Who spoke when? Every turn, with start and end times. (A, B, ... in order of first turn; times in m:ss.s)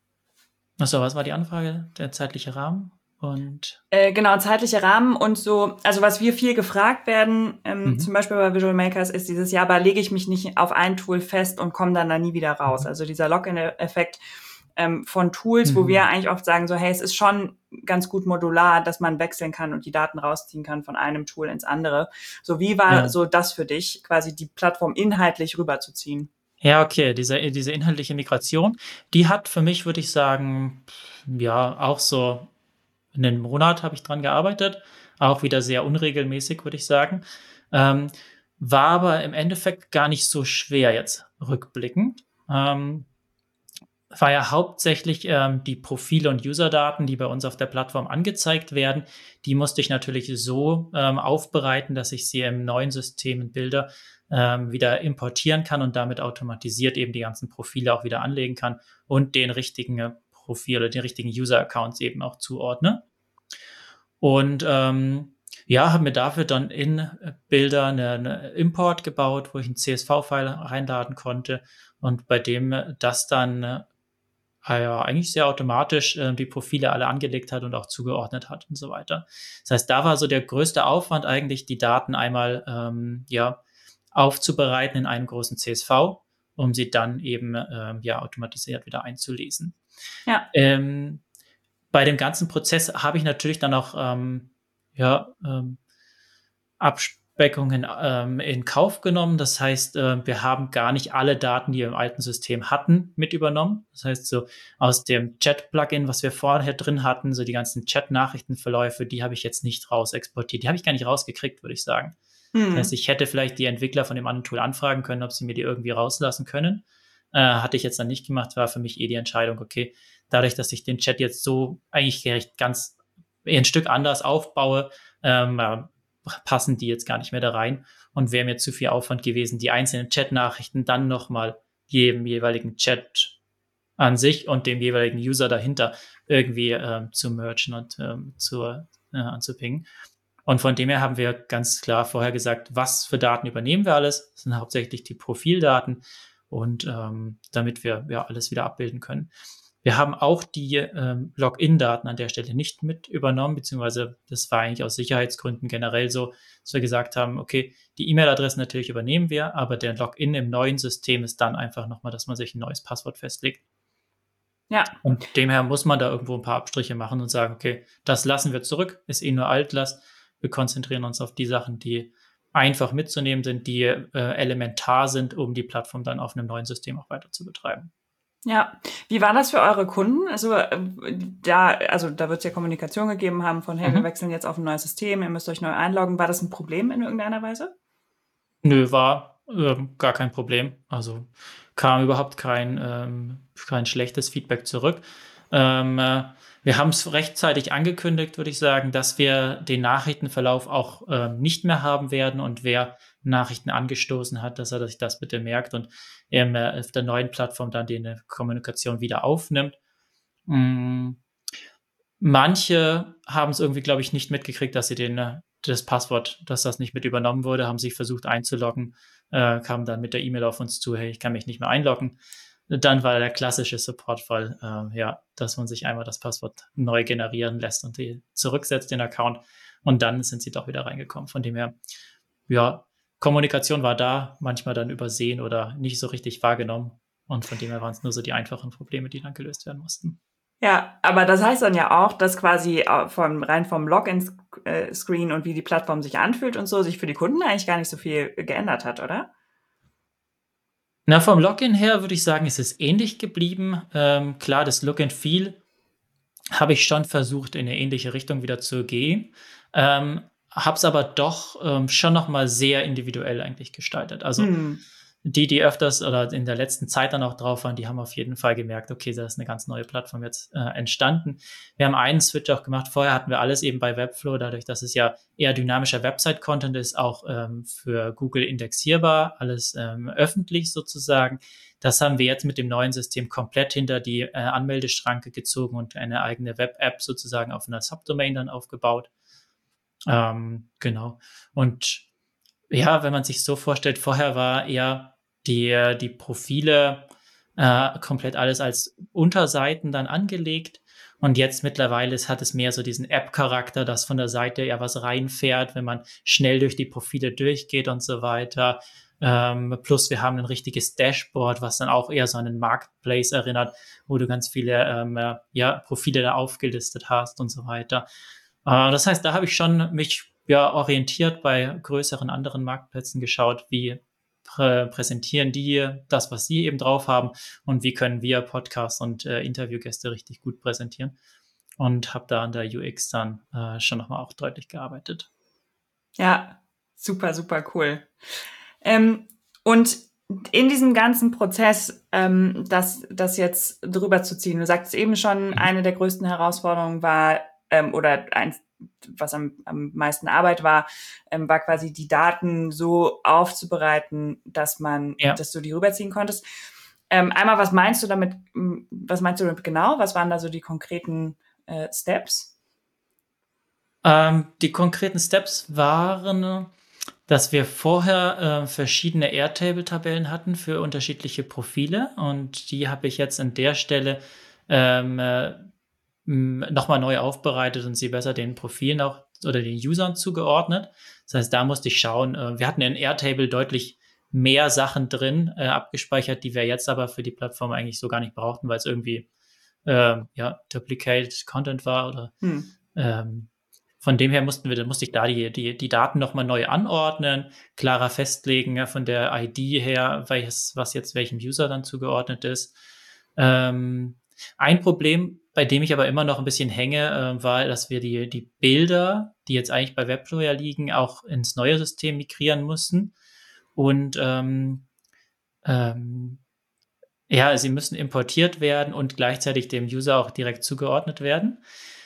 0:00.8-0:03.8 A
0:03.9-0:14.2 B
0:14.8-0:26.3 B
0:15.6-0:16.0 A
0:22.9-0:23.1 A
0:26.6-0:32.5 A
0:33.1-0:43.1 A
0:44.1-1:03.0 A
1:04.2-1:13.9 A
1:14.6-1:23.6 A
1:24.1-1:29.8 A
1:30.5-1:31.2 A
1:31.9-1:35.8 A
1:36.8-1:52.2 A
1:52.5-1:52.9 B
1:52.7-2:13.4 A
2:14.0-2:19.9 A
2:20.4-2:29.3 A
2:29.8-2:43.6 A
2:44.7-2:45.0 B
2:45.0-2:57.9 A
2:58.4-3:07.7 B
3:08.6-3:29.8 A
3:30.5-3:31.2 A
3:32.2-3:42.2 A
3:42.7-3:51.8 A
3:52.5-4:00.2 A
4:00.6-4:09.3 B
4:11.1-4:15.6 A
4:16.5-4:24.5 A
4:24.4-4:24.8 B
4:25.2-4:49.1 A
4:50.1-4:52.1 A
4:52.7-5:18.1 A
5:18.6-5:31.2 A
5:31.8-5:35.3 A
5:36.2-5:38.1 B
5:38.8-5:56.4 B
5:57.1-6:02.5 B
6:04.0-6:06.7 A
6:07.3-6:15.6 A
6:16.3-6:29.3 A
6:29.9-6:32.3 A
6:32.4-6:32.7 B
6:32.9-6:33.5 A
6:34.0-6:42.7 A
6:43.4-6:53.1 A
6:53.8-6:54.9 A
6:55.6-6:56.4 A
6:57.3-7:01.6 A